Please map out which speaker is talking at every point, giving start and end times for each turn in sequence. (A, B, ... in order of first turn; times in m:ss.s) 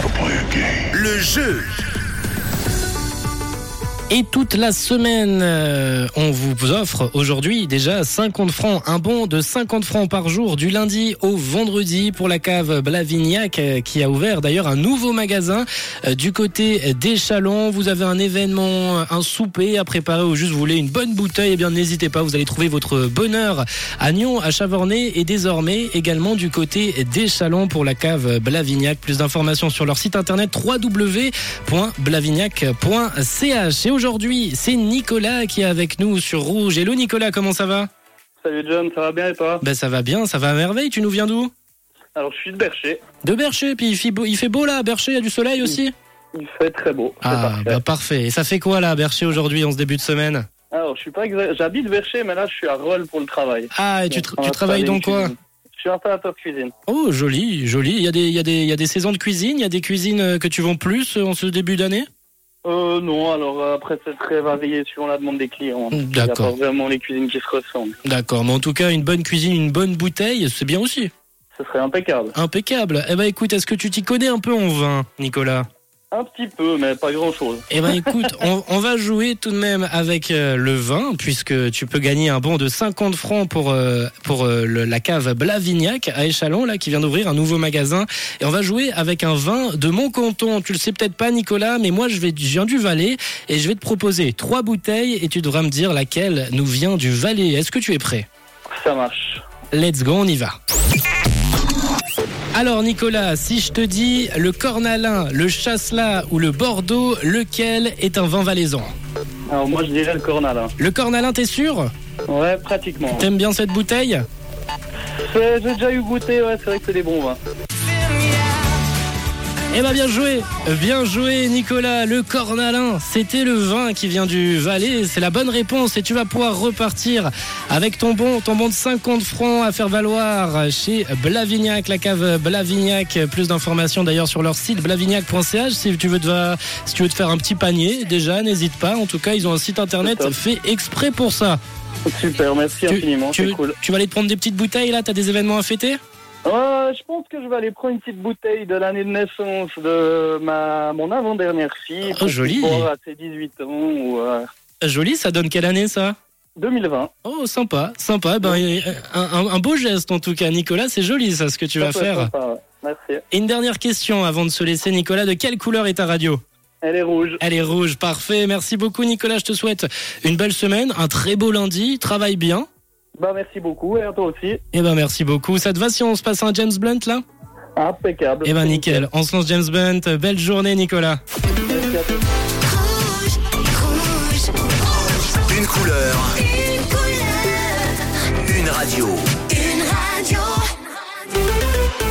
0:00.8-0:01.7 A
0:04.1-0:37.9 B
0:38.4-0:39.6 C
0:39.6-0:41.5 B
0:42.2-0:43.0 C
0:43.2-0:45.9 B
0:46.3-0:47.8 C
0:47.2-0:50.4 B
0:50.7-0:56.7 C
0:53.7-0:55.3 B
0:56.9-1:02.1 B
1:02.6-1:08.0 C
1:05.9-1:06.5 B
1:08.0-1:11.1 B
1:11.6-1:12.3 C
1:12.3-1:15.7 B
1:16.1-1:18.3 C
1:17.7-1:38.3 B
1:38.8-1:39.4 C
1:39.7-1:40.6 B
1:42.5-1:48.9 B
1:49.5-1:50.7 C
1:50.8-1:51.9 B
1:52.3-1:53.3 C
1:53.1-1:54.2 B
1:55.2-1:57.4 C
1:59.7-2:21.6 B
2:20.0-2:20.3 C
2:22.1-2:23.8 C
2:22.9-2:26.0 B
2:26.4-2:34.4 C
2:32.0-2:32.9 B
2:34.8-2:36.2 B
2:36.6-2:37.1 C
2:37.2-2:42.3 B
2:41.8-2:43.2 C
2:43.3-2:46.4 B
2:46.8-2:47.4 C
2:47.4-2:52.7 B
2:53.2-2:54.6 C
2:54.7-2:57.2 B
2:57.8-2:59.1 C
2:58.4-3:01.2 B
3:01.6-3:02.2 C
3:02.6-3:05.2 D
3:05.2-3:06.4 A
3:06.4-3:08.2 D
3:08.3-3:09.5 A
3:09.5-3:10.9 D